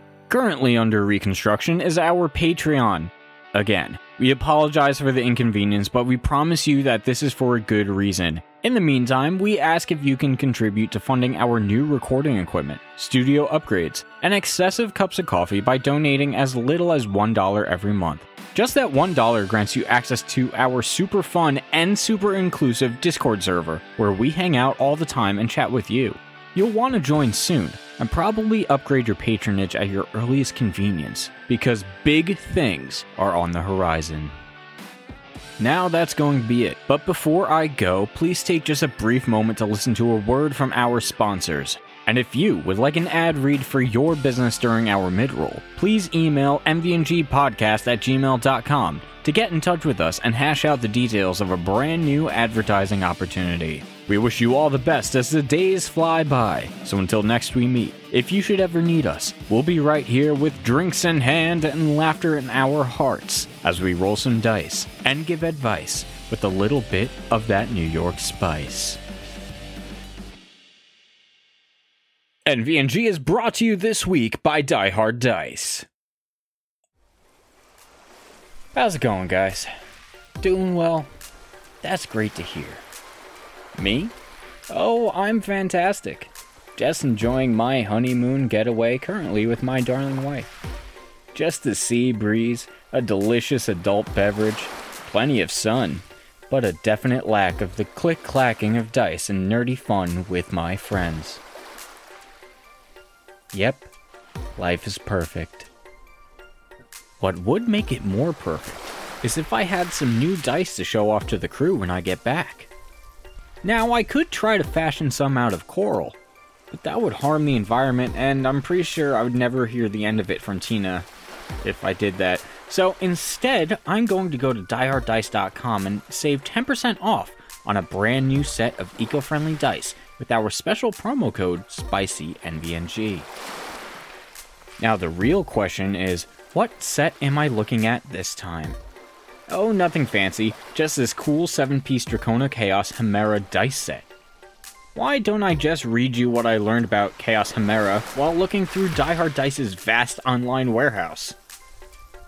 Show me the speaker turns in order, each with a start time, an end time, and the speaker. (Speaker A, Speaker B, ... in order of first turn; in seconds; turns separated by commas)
Speaker A: 0.3-34.3, Speaker A: 35.6-69.0, Speaker A: 72.5-75.8, Speaker A: 78.7-79.7, Speaker A: 80.4-81.1, Speaker A: 81.8-82.8, Speaker A: 83.8-84.1, Speaker A: 84.7-90.5, Speaker A: 91.3-101.4, Speaker A: 103.5-103.9, Speaker A: 104.6-105.7, Speaker A: 107.2-112.7, Speaker A: 113.6-116.2, Speaker A: 116.7-121.0, Speaker A: 121.6-133.3, Speaker A: 134.8-138.8, Speaker A: 139.5-144.1, Speaker A: 144.9-151.3